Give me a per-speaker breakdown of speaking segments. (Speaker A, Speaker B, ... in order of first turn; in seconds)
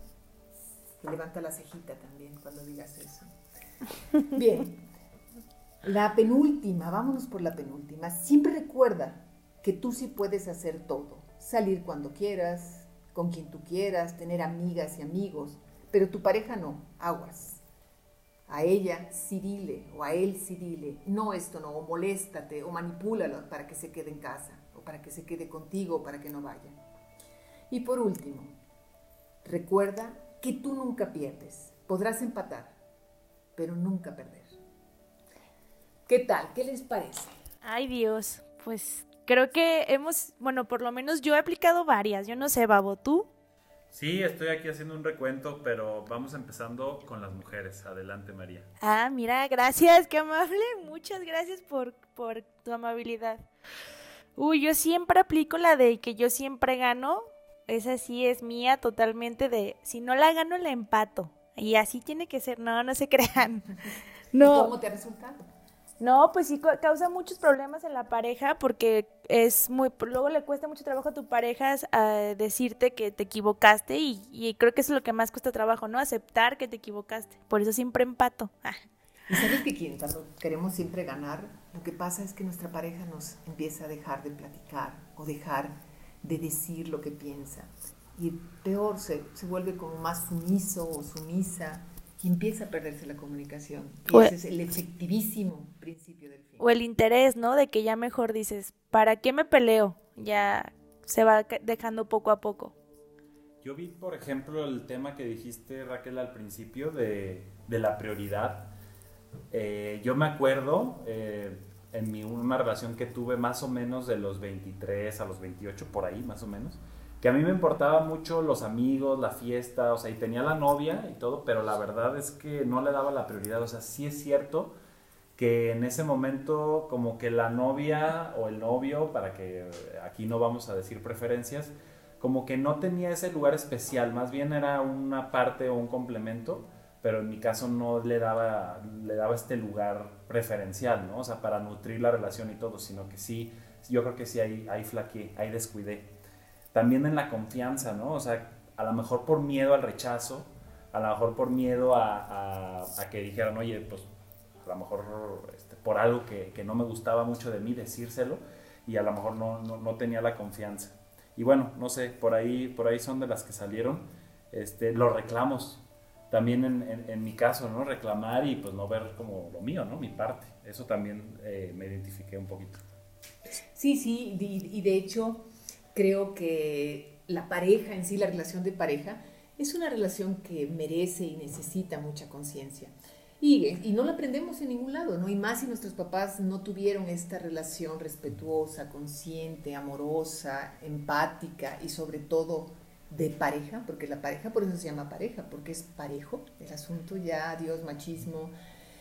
Speaker A: 1.0-3.3, 4.3-4.8, 5.8-17.6, 18.5-26.8, 27.7-28.5, 29.4-32.8, 33.6-34.6, 36.1-37.3, 64.4-65.4, 79.3-96.7, 173.8-198.5
Speaker B: 37.6-43.3, 48.8-53.4, 54.4-63.8, 64.3-64.7, 66.0-78.8, 96.6-102.7
Speaker C: 43.9-48.7, 103.6-108.7, 109.5-124.7, 125.4-146.1, 146.7-154.1, 154.6-172.8